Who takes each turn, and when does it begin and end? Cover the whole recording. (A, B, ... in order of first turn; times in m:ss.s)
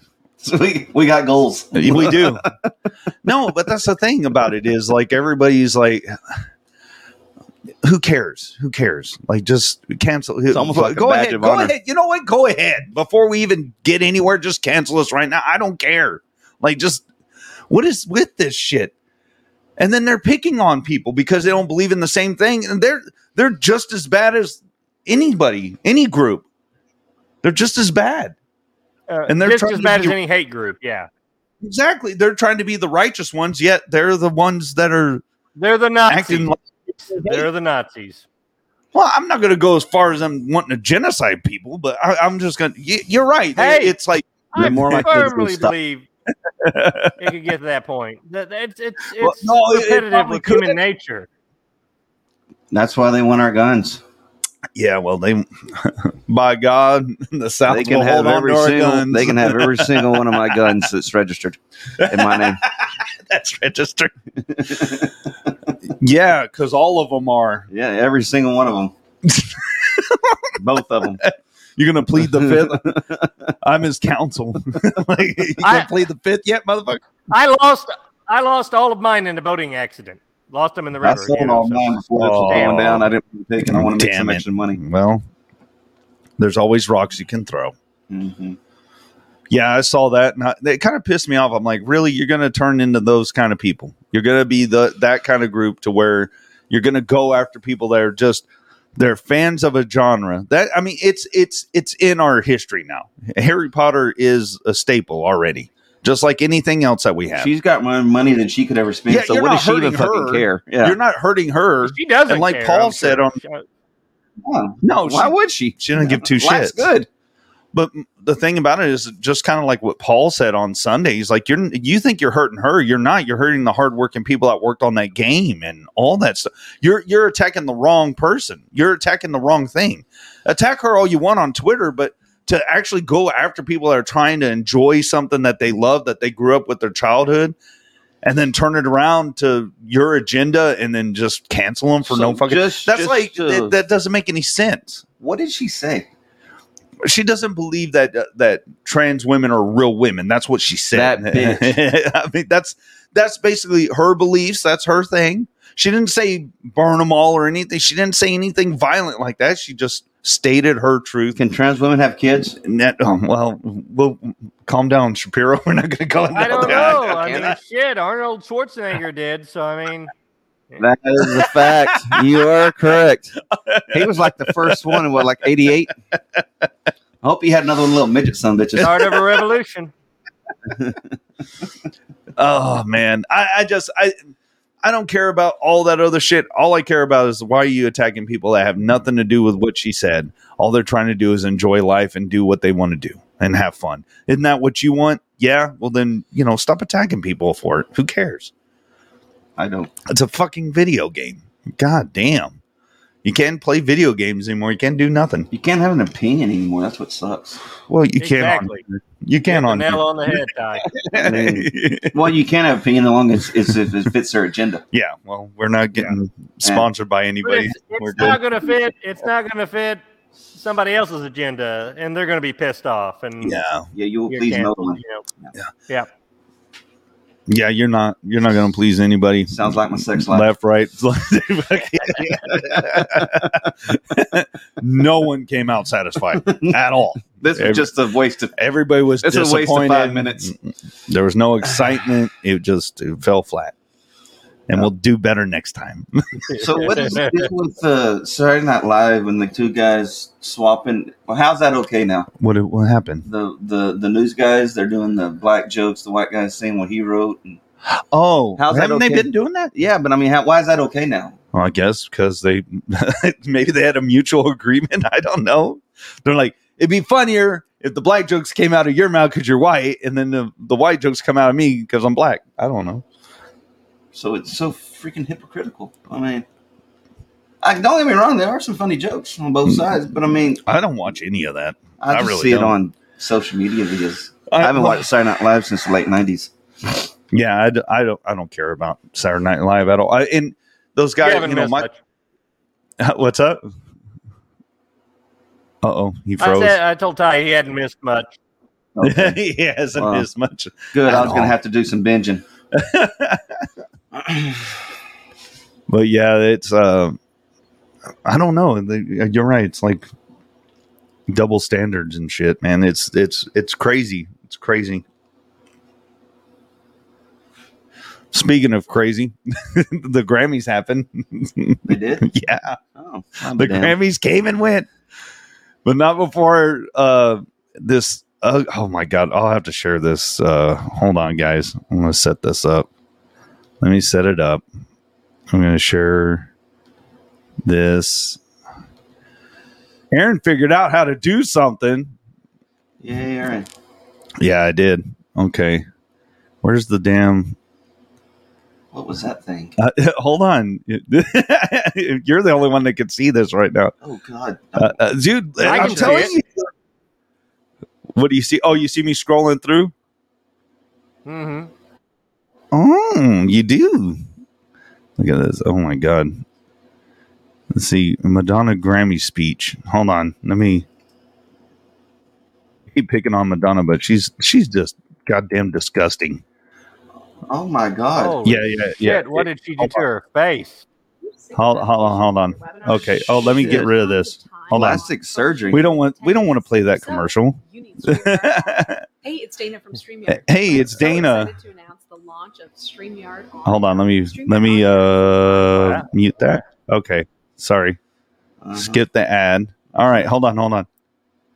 0:00.4-0:02.6 A
0:01.7-0:02.4 B
0:03.2-0:06.2 B
0:07.8-0:17.0 B
0:10.5-0:11.7 A
0:17.7-0:18.9 B
0:19.8-0:26.4 B
0:27.4-0:28.3 B
0:29.1-0:31.1 C
0:29.3-0:30.2 B
0:31.6-0:35.2 B
0:35.6-0:36.5 C
0:36.1-0:36.6 B
0:37.1-0:38.2 C
0:37.1-0:37.5 B
0:38.9-0:45.3 B
0:43.6-0:43.9 C
0:44.5-0:46.0 C
0:44.5-0:45.7 A
0:46.6-0:47.3 B
0:47.2-0:51.3 C
0:49.2-0:50.8 B
0:52.7-0:54.0 A
0:54.7-1:00.8 B
0:57.7-1:02.6 A
1:02.0-1:04.1 B
1:04.5-1:05.7 A
1:06.0-1:07.7 B
1:07.7-1:08.9 A
1:09.2-1:10.5 B
1:10.6-1:11.2 A
1:11.2-1:12.8 B
1:12.2-1:13.3 A
1:13.6-1:17.0 B
1:15.6-1:15.9 C
1:17.3-1:22.8 C
1:21.0-1:24.8 A
1:22.1-1:23.1 B
1:23.6-1:25.2 B
1:26.4-1:27.7 B
1:28.1-1:28.6 A
1:29.5-1:47.5 B
1:47.3-1:51.0 A
1:49.1-1:53.4 B
1:51.8-1:53.6 C
1:54.4-1:57.1 A
1:54.8-1:56.9 B
1:57.7-2:17.6 B
2:18.2-2:25.0 B
2:22.0-2:23.7 A
2:25.2-2:26.1 A
2:27.0-2:41.4 B
2:30.9-2:31.7 A
2:41.4-2:42.6 A
2:42.6-2:47.5 B
2:46.3-2:50.1 C
2:46.4-2:47.5 A
2:50.8-2:53.4 A
2:51.6-2:52.2 B
2:53.5-2:55.8 B
2:53.9-2:55.9 A
2:57.2-2:59.2 A
2:58.8-2:59.9 C
3:00.7-3:01.0 A
3:02.4-3:04.2 B
3:04.8-3:18.5 B
3:19.6-3:19.9 A
3:20.1-3:22.6 B
3:23.2-3:25.5 B
3:25.5-3:27.6 A
3:27.9-3:30.4 B
3:28.2-3:28.8 C
3:29.5-3:30.9 C
3:31.0-3:32.3 B
3:31.1-3:34.8 A
3:34.9-3:38.4 B
3:37.4-3:40.0 C
3:38.2-3:38.4 A
3:40.5-3:43.6 C
3:43.4-3:43.9 B
3:43.9-3:45.5 A
3:44.3-3:45.2 C
3:47.5-3:57.9 B
3:49.5-3:50.5 A
3:52.7-3:53.5 A
3:56.4-3:56.7 A
3:57.3-3:58.5 A
3:58.6-4:00.6 B
3:59.2-4:00.5 A
4:01.1-4:03.7 B
4:04.7-4:06.1 B
4:06.5-4:07.5 C
4:06.6-4:12.3 A
4:12.4-4:13.2 B
4:13.2-4:17.6 A
4:17.9-4:19.7 B
4:18.6-4:21.4 A
4:21.5-4:33.0 B
4:34.1-4:36.4 A
4:37.6-4:40.6 A
4:40.6-4:42.8 B
4:42.0-4:47.0 A
4:44.5-4:45.1 B
4:47.3-4:51.9 B
4:51.2-4:52.0 C
4:53.0-4:53.6 B
4:55.8-4:56.8 B
4:56.4-4:58.3 C
4:58.9-4:59.4 A
4:59.0-5:01.6 B
5:00.0-5:00.2 A
5:00.9-5:02.4 A
5:02.7-5:03.6 B
5:04.1-5:04.8 A
5:05.9-5:07.2 B
5:08.2-5:10.1 B
5:11.3-5:15.0 B
5:18.3-5:22.8 B
5:21.9-5:22.2 A
5:22.9-5:23.9 A
5:23.5-5:24.9 B
5:25.8-5:32.9 B
5:33.8-5:34.6 B
5:35.5-5:36.5 B
5:37.6-5:38.4 B
5:40.1-5:42.1 B
5:43.0-5:43.7 A
5:44.4-5:45.8 B
5:46.6-5:47.6 B
5:48.9-5:49.8 A
5:49.8-5:53.9 B
5:54.0-5:55.0 A
5:54.8-5:56.6 B
5:55.6-5:56.3 A
5:55.6-5:56.3 C
5:58.1-5:59.9 B
6:01.2-6:01.7 C
6:02.7-6:04.2 B
6:05.2-6:06.4 B
6:07.7-6:10.8 B
6:12.9-6:16.4 B
6:17.5-6:18.5 A
6:18.2-6:20.8 C
6:18.4-6:20.0 B
6:21.2-6:36.0 D
6:21.5-6:25.0 B
6:23.0-6:23.9 A
6:24.7-6:25.9 A
6:25.7-6:29.0 B
6:30.3-6:31.5 B
6:33.6-6:38.0 B
6:38.6-6:39.0 A
6:38.7-6:40.9 B